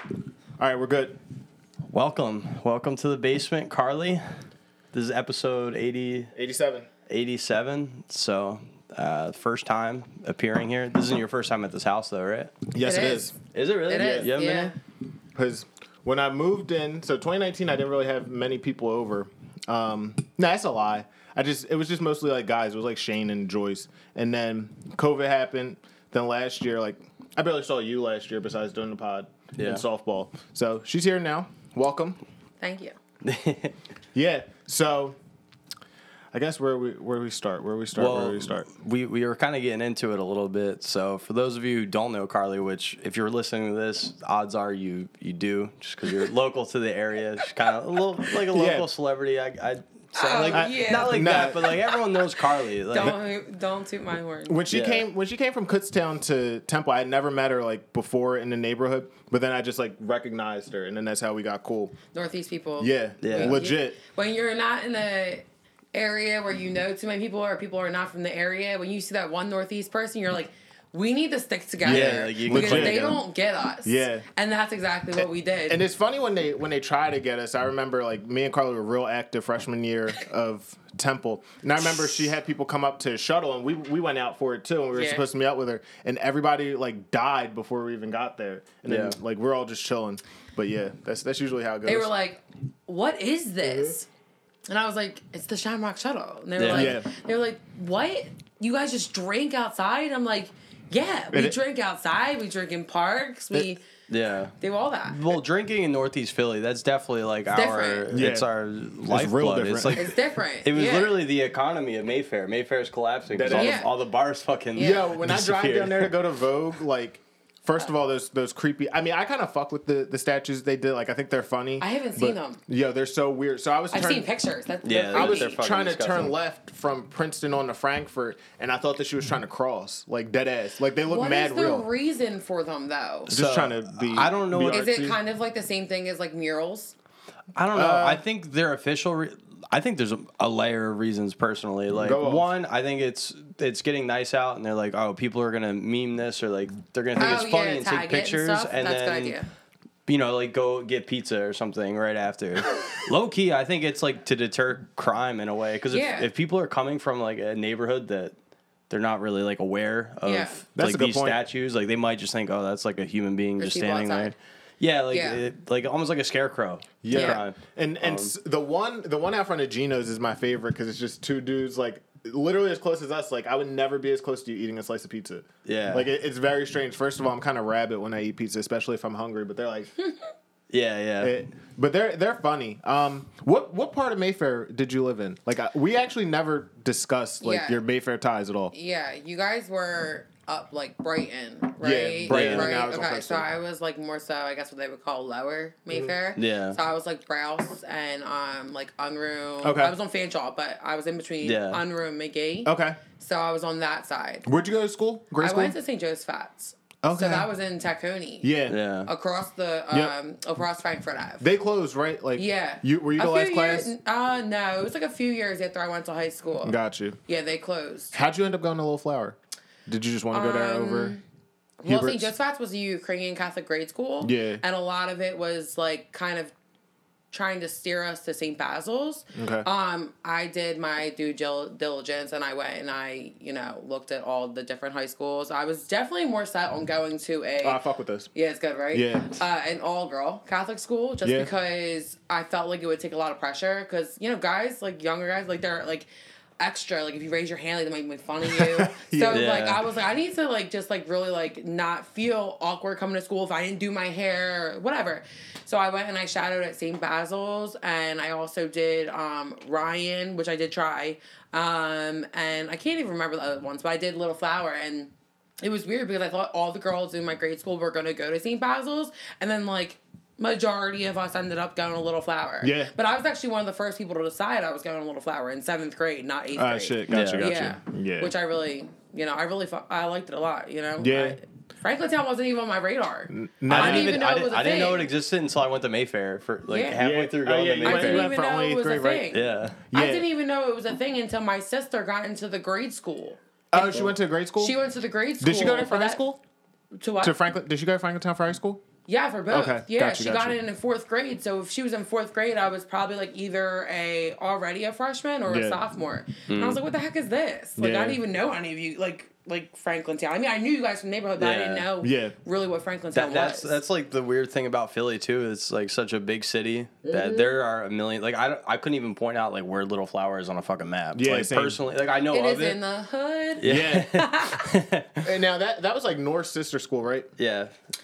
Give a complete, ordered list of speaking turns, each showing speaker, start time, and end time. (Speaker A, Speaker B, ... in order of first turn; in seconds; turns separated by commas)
Speaker A: 0.6-1.2, Speaker B: 1.9-6.3, Speaker A: 6.3-6.9, Speaker B: 7.1-12.5, Speaker A: 12.7-13.3, Speaker C: 12.8-13.4, Speaker B: 13.5-14.7, Speaker C: 13.9-14.8, Speaker A: 13.9-14.3, Speaker A: 15.3-32.2, Speaker B: 29.5-29.8, Speaker C: 32.6-33.0, Speaker B: 33.2-33.8, Speaker A: 34.1-35.2, Speaker A: 36.3-38.7, Speaker B: 38.0-53.2, Speaker A: 48.5-48.9, Speaker C: 50.1-51.7, Speaker A: 50.5-51.9, Speaker C: 52.9-54.6, Speaker A: 54.5-62.0, Speaker B: 54.7-55.0, Speaker C: 62.1-75.8, Speaker A: 62.8-64.0, Speaker B: 63.2-63.6, Speaker B: 71.8-73.2, Speaker A: 71.8-73.2, Speaker A: 73.8-74.2, Speaker A: 75.2-92.1, Speaker C: 84.9-85.2, Speaker B: 88.8-89.2, Speaker C: 91.8-94.1, Speaker A: 93.6-93.9, Speaker C: 94.7-103.8, Speaker B: 96.6-96.9, Speaker A: 96.7-97.1, Speaker B: 104.1-104.5, Speaker C: 104.6-105.2, Speaker B: 105.1-116.1, Speaker C: 107.5-108.1, Speaker A: 108.1-108.5, Speaker A: 109.0-110.1, Speaker C: 110.0-111.2, Speaker A: 113.3-113.8, Speaker C: 113.5-113.9, Speaker A: 114.8-124.2, Speaker C: 114.8-115.0, Speaker C: 121.8-122.6, Speaker C: 123.9-125.6, Speaker B: 124.8-126.3, Speaker A: 125.1-131.9, Speaker C: 131.1-133.3, Speaker A: 133.3-135.2, Speaker B: 133.3-134.9, Speaker C: 134.7-136.9, Speaker B: 137.6-149.4, Speaker A: 137.7-138.2, Speaker A: 141.9-142.5, Speaker C: 147.2-149.5, Speaker B: 150.1-158.3, Speaker C: 155.9-156.3, Speaker B: 158.9-168.3, Speaker C: 160.2-160.6, Speaker A: 160.8-161.4, Speaker C: 163.6-164.3, Speaker C: 165.1-165.4, Speaker A: 167.0-179.9, Speaker C: 167.1-167.4, Speaker B: 175.7-176.1, Speaker B: 180.7-181.3, Speaker A: 181.2-188.7, Speaker C: 187.4-187.8, Speaker C: 188.7-204.5, Speaker A: 191.8-193.5, Speaker B: 192.3-192.7, Speaker B: 196.3-196.8, Speaker A: 199.6-199.9, Speaker B: 201.4-201.8, Speaker A: 202.7-203.0, Speaker A: 204.4-205.8, Speaker C: 205.4-208.5, Speaker A: 207.0-207.5, Speaker A: 208.4-208.8, Speaker B: 208.7-209.1, Speaker C: 209.1-211.4, Speaker A: 211.4-213.9, Speaker C: 212.4-216.8, Speaker A: 216.6-217.2, Speaker C: 217.3-218.1, Speaker A: 218.1-221.2, Speaker C: 220.3-221.2, Speaker C: 221.8-226.5, Speaker A: 221.9-222.3, Speaker A: 224.2-224.6, Speaker C: 227.3-237.8, Speaker A: 229.3-229.7, Speaker A: 237.6-238.3, Speaker C: 238.3-246.1, Speaker A: 238.9-239.4, Speaker A: 241.2-241.5, Speaker C: 246.6-285.1, Speaker A: 248.4-249.5, Speaker B: 249.3-249.8, Speaker A: 272.6-272.9, Speaker A: 276.6-278.3, Speaker B: 277.1-277.5, Speaker A: 281.0-281.4, Speaker A: 283.3-284.2, Speaker B: 283.7-288.3, Speaker C: 286.7-287.0, Speaker A: 287.0-289.2, Speaker C: 287.8-296.2, Speaker B: 289.3-289.8, Speaker A: 289.9-290.2, Speaker A: 293.7-294.8, Speaker A: 295.4-296.4, Speaker C: 296.9-297.4, Speaker A: 297.2-298.8, Speaker C: 299.1-313.8, Speaker A: 299.5-300.6, Speaker A: 305.5-305.8, Speaker B: 306.5-306.8, Speaker A: 307.8-308.2, Speaker B: 311.4-311.9, Speaker A: 312.0-312.3, Speaker B: 313.1-322.8, Speaker C: 317.1-317.5, Speaker A: 321.1-321.8, Speaker C: 322.3-324.7, Speaker B: 323.6-325.2, Speaker A: 323.6-324.1, Speaker A: 325.2-327.3, Speaker B: 327.4-327.7